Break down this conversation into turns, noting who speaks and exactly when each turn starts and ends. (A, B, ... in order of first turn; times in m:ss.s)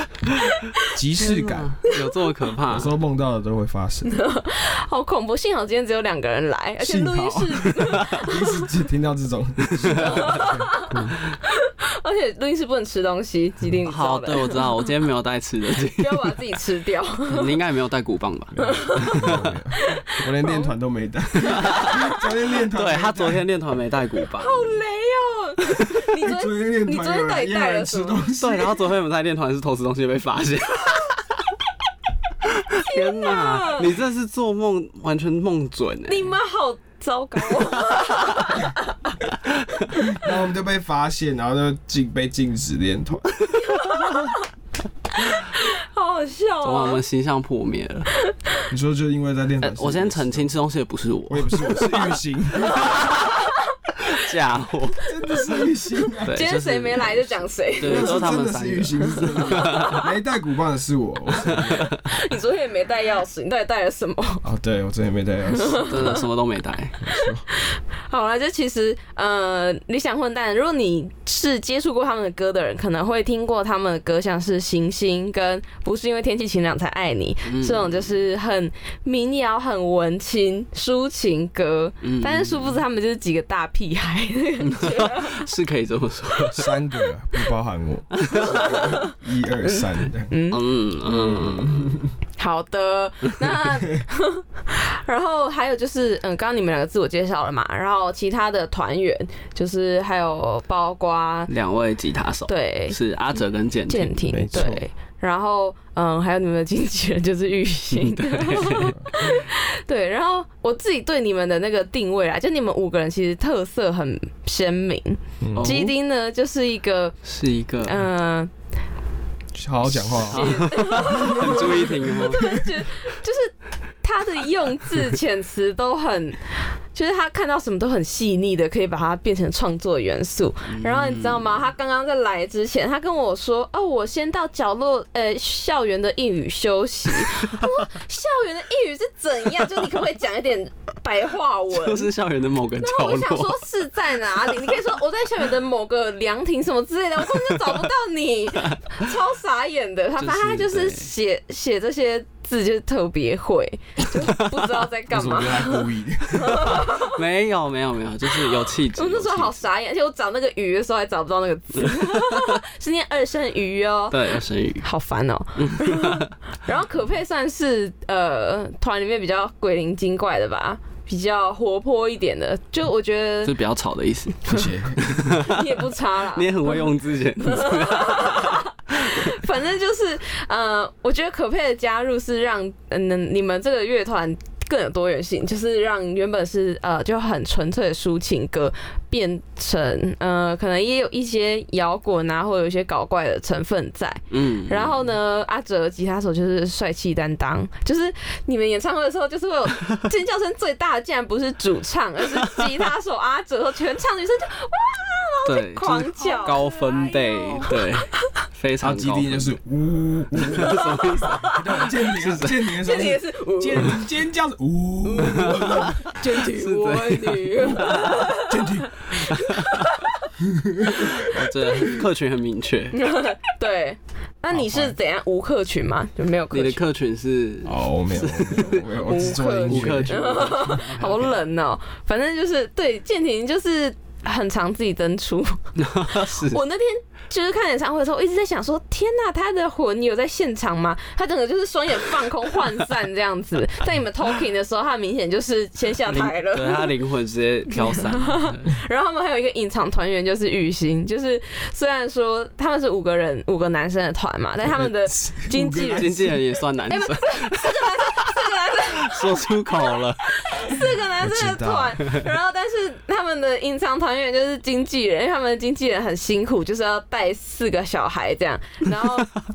0:00.2-0:00.6 A
0:00.9-0:01.8 B
0:01.2-0:02.9 A
0:02.7-0:04.1 B
0:04.0-0:08.6 C
0:06.8-0:11.2 B
0:09.8-0:10.5 A
0:09.9-0:10.9 C
0:11.5-0:14.6 C
0:13.8-0:16.4 A
0:15.9-0:17.5 C
0:17.3-0:19.6 A
0:18.6-0:23.4 B
0:18.6-0:20.7 C
0:21.5-0:21.9 A
0:21.5-0:22.0 C
0:22.7-0:24.8 A
0:24.3-0:28.2 C
0:26.2-0:28.8 B
0:28.4-0:31.2 A
0:32.5-0:36.4 A
0:32.8-0:33.9 C
0:36.1-0:39.2 C
0:40.1-0:43.3 B
0:43.5-0:44.5 C
0:45.3-0:47.0 C
0:46.6-0:48.1 A
0:48.7-0:50.5 B
0:49.6-0:52.1 A
0:51.3-0:53.0 B
0:52.7-0:54.3 C
0:52.8-0:53.0 A
0:54.0-0:55.1 A
0:55.0-0:56.4 B
0:55.3-0:55.6 C
0:56.2-0:57.2 A
0:56.3-0:58.2 C
0:57.8-1:00.1 A
0:57.8-1:01.9 B
0:59.4-1:00.0 C
1:01.4-1:02.0 A
1:01.8-1:04.4 C
1:04.4-1:06.1 B
1:05.6-1:06.2 C
1:05.9-1:07.0 A
1:07.0-1:07.4 B
1:07.2-1:25.4 C
1:17.5-1:18.2 A
1:22.0-1:22.8 A
1:24.7-1:26.8 A
1:26.5-1:30.3 B
1:28.2-1:28.8 A
1:28.4-1:29.1 C
1:29.6-1:31.8 C
1:30.5-1:31.9 A
1:32.4-1:41.5 C
1:33.8-1:34.0 B
1:41.5-1:44.7 A
1:42.5-1:43.0 C
1:43.9-1:57.2 C
1:44.3-1:44.9 B
1:47.9-1:49.0 A
1:55.4-1:55.8 B
1:55.6-1:55.9 A
1:57.2-1:58.0 A
1:57.8-1:58.5 C
1:59.6-2:02.5 B
2:00.0-2:22.1 C
2:00.1-2:02.4 A
2:10.7-2:11.6 A
2:21.7-2:23.6 A
2:22.8-2:37.2 C
2:30.2-2:31.1 A
2:35.1-2:36.8 B
2:36.6-2:39.6 A
2:38.9-2:44.3 C
2:44.1-2:44.8 A
2:44.8-2:53.5 C
2:45.6-2:46.3 A
2:53.4-2:55.8 A
2:54.4-2:55.2 B
2:55.3-3:28.0 C
2:56.3-2:58.6 A
3:14.3-3:15.0 A
3:22.4-3:22.7 A
3:25.5-3:29.5 A
3:28.8-3:36.1 B
3:30.5-3:31.5 A
3:30.6-3:31.6 C
3:32.1-3:32.7 A
3:32.8-3:34.0 C
3:35.0-3:40.2 C
3:35.2-3:38.3 A
3:38.5-3:39.0 B
3:39.3-3:39.9 A
3:40.4-3:42.0 B
3:41.1-3:43.0 A
3:42.9-3:46.8 C
3:44.5-3:45.0 B
3:46.5-3:51.4 A
3:47.6-3:50.5 B
3:49.1-4:06.9 C
3:55.8-3:56.6 A
4:06.1-4:08.7 A
4:07.8-4:16.4 C
4:14.6-4:16.4 B
4:15.8-4:20.3 A
4:16.9-4:29.3 C
4:21.2-4:22.0 B